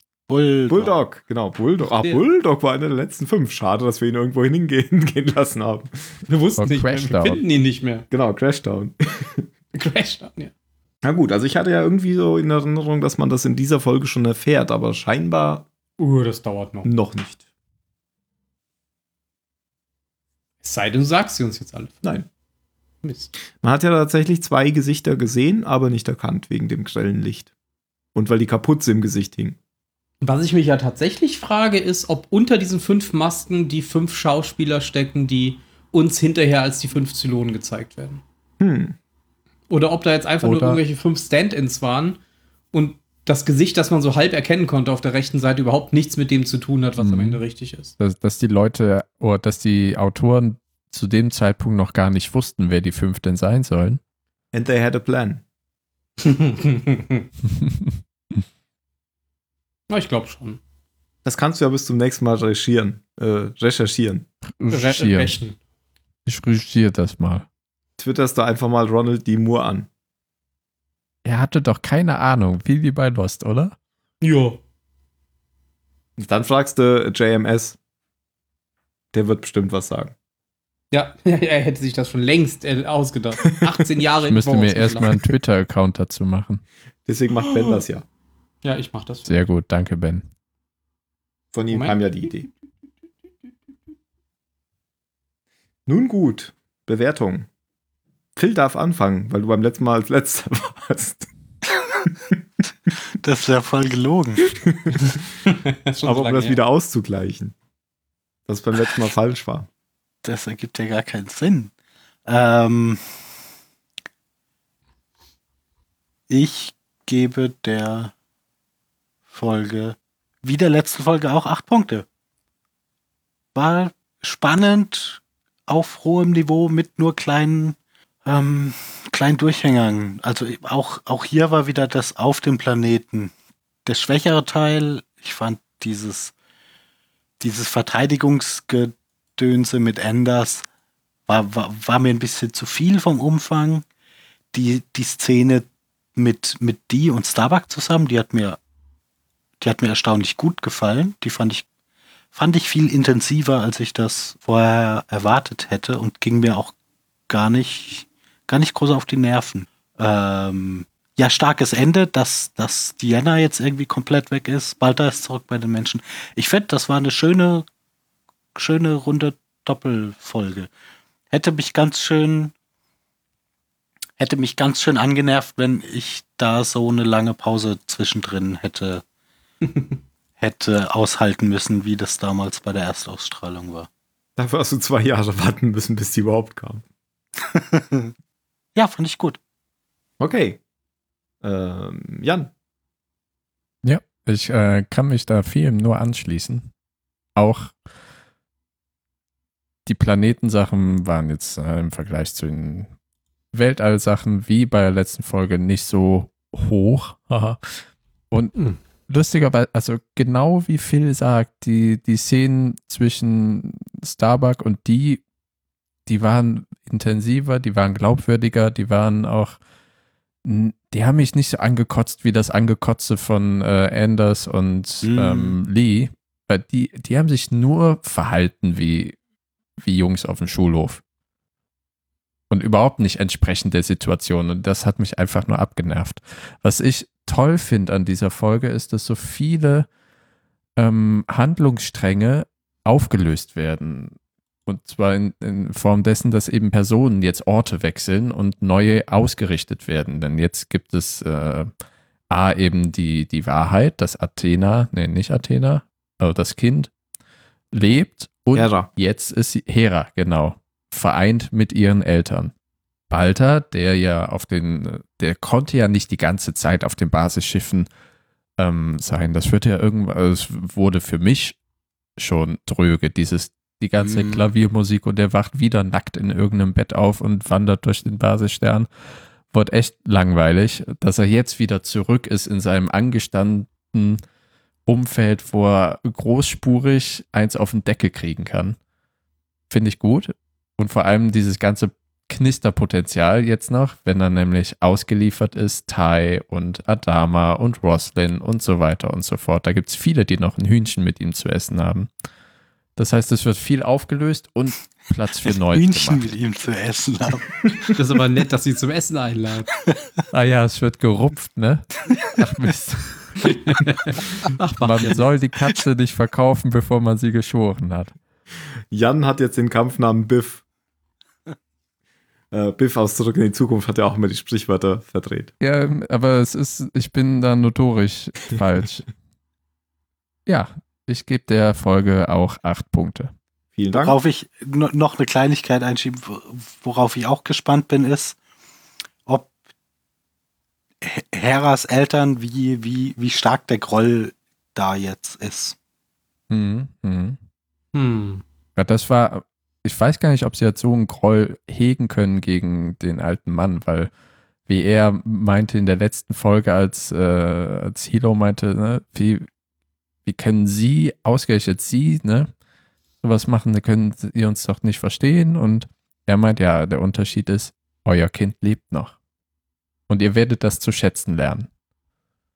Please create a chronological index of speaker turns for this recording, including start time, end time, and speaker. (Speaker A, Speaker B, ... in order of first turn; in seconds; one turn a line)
Speaker A: 0.3-1.0
Speaker B: 0.7-6.2
Speaker C: 6.3-8.1
Speaker D: 6.6-7.4
Speaker B: 8.1-9.5
Speaker C: 9.7-10.5
Speaker B: 11.0-15.7
Speaker C: 16.0-16.9
Speaker B: 16.8-17.4
Speaker C: 20.6-22.0
Speaker C: 23.0-23.3
Speaker B: 23.6-27.5
Speaker B: 28.1-29.6
Speaker C: 30.2-38.2
Speaker B: 38.6-39.0
Speaker C: 39.7-42.2
Speaker D: 40.4-40.8
Speaker C: 42.7-47.9
Speaker D: 47.0-47.4
Speaker D: 48.0-54.0
Speaker B: 54.5-55.4
Speaker C: 56.2-57.3
Speaker D: 57.5-57.9
Speaker C: 59.9-60.6
Speaker B: 61.2-64.3
Speaker D: 64.6-65.4
Speaker C: 64.7-65.6
Speaker D: 66.2-67.5
Speaker B: 68.0-69.9
Speaker D: 71.2-73.7
Speaker C: 74.2-74.6
Speaker B: 76.2-77.8
Speaker B: 79.1-80.1
Speaker C: 80.9-85.1
Speaker D: 84.2-86.6
Speaker B: 87.0-88.0
Speaker C: 88.6-89.3
Speaker D: 89.2-90.3
Speaker B: 91.5-92.5
Speaker C: 91.7-92.0
Speaker B: 95.9-97.5
Speaker B: 98.3-101.3
Speaker A: 103.2-104.5
Speaker B: 104.6-105.2
Speaker C: 105.5-106.6
Speaker B: 106.0-107.5
Speaker B: 108.5-109.7
Speaker A: 110.2-111.7
Speaker A: 112.2-113.0
Speaker A: 116.3-118.1
Speaker A: 119.3-122.0
Speaker A: 123.5-133.3
Speaker A: 133.8-136.3
Speaker A: 137.4-140.6
Speaker A: 141.3-143.8
Speaker A: 144.5-148.6
Speaker A: 149.6-151.7
Speaker A: 152.3-156.7
Speaker A: 157.3-167.7
Speaker A: 168.6-170.7
Speaker A: 171.3-172.5
Speaker A: 174.2-179.0
Speaker C: 179.7-179.9
Speaker A: 180.4-183.9
Speaker B: 184.4-186.8
Speaker A: 187.5-188.1
Speaker A: 188.7-189.4
Speaker B: 190.2-190.6
Speaker B: 191.4-192.5
Speaker D: 193.8-196.7
Speaker D: 197.3-197.7
Speaker D: 199.8-202.9
Speaker D: 203.5-207.6
Speaker D: 209.1-215.2
Speaker D: 216.1-219.6
Speaker D: 220.4-229.2
Speaker A: 225.0-225.6
Speaker D: 229.8-231.0
Speaker D: 232.5-239.9
Speaker D: 240.8-251.7
Speaker D: 252.3-256.9
Speaker D: 257.7-262.5
Speaker B: 258.5-258.9
Speaker D: 263.1-267.9
Speaker D: 268.6-271.6
Speaker D: 272.2-278.9
Speaker A: 274.0-274.4
Speaker D: 279.5-284.2
Speaker D: 284.9-288.8
Speaker D: 289.7-302.1
Speaker D: 302.9-306.3
Speaker A: 305.4-307.9
Speaker C: 307.9-309.7
Speaker D: 310.3-318.1
Speaker C: 314.8-315.2
Speaker B: 318.9-320.6
Speaker B: 322.5-325.5
Speaker D: 325.6-329.1
Speaker D: 330.4-333.3
Speaker B: 333.8-334.2
Speaker A: 333.9-338.4
Speaker A: 341.0-345.8
Speaker D: 346.5-347.4
Speaker C: 347.9-348.4
Speaker D: 348.8-354.1
Speaker D: 354.7-359.5
Speaker D: 360.2-362.5
Speaker D: 363.2-369.1
Speaker D: 370.1-371.7